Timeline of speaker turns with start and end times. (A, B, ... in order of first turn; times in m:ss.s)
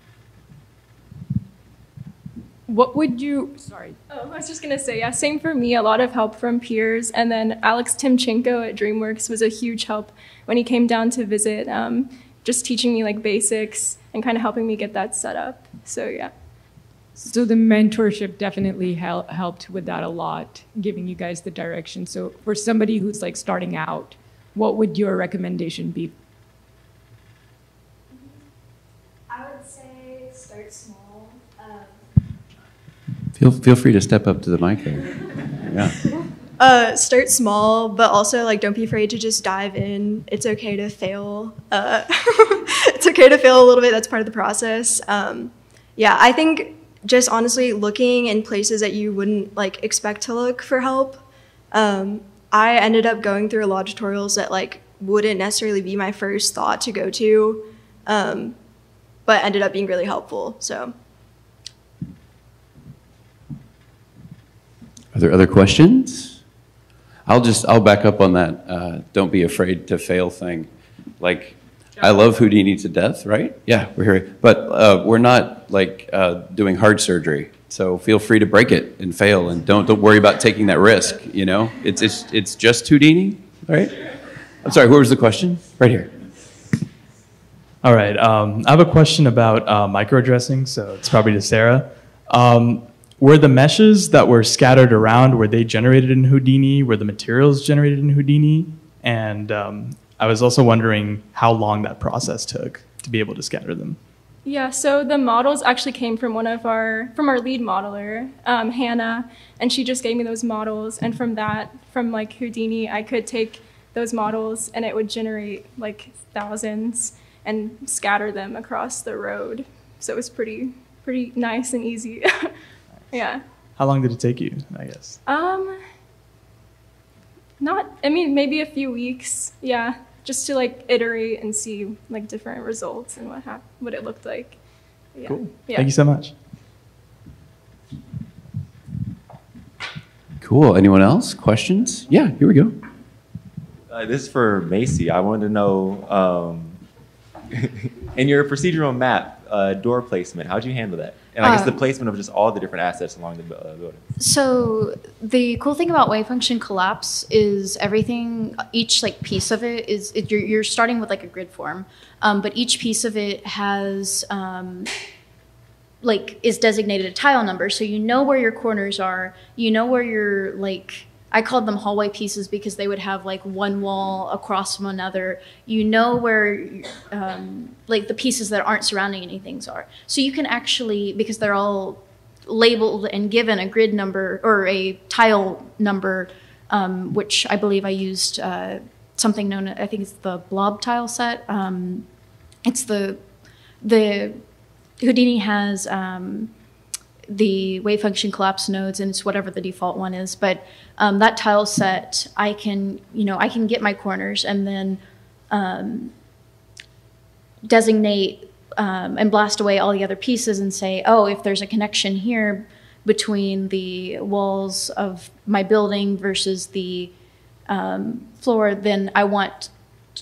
0:02.7-0:04.0 A
0:04.1-0:16.3 B
0:17.2-0:26.2 A
0:29.3-0:32.0 C
0:33.3-0:35.9 D
0:36.6-0:58.6 C
0:59.2-1:00.9 C
1:05.1-1:06.4 D
1:07.2-1:24.0 D
1:24.6-1:26.1 D
1:27.8-1:44.0 E
1:44.4-2:02.5 B
2:03.1-2:03.4 B
2:03.8-2:05.2 E
2:05.2-2:05.8 B
2:07.6-2:14.6 B
2:15.1-2:15.9 B
2:15.2-2:16.3 E
2:20.4-2:22.8 D
2:23.9-2:26.8 F
2:27.5-2:34.0 F
2:31.4-2:31.8 G
2:34.2-2:44.9 G
2:46.0-3:12.0 G
3:12.6-3:13.2 G
3:13.8-3:14.4 G
3:15.0-3:16.5 G
3:17.3-3:26.1 G
3:27.6-3:37.1 G
3:37.7-3:39.7 G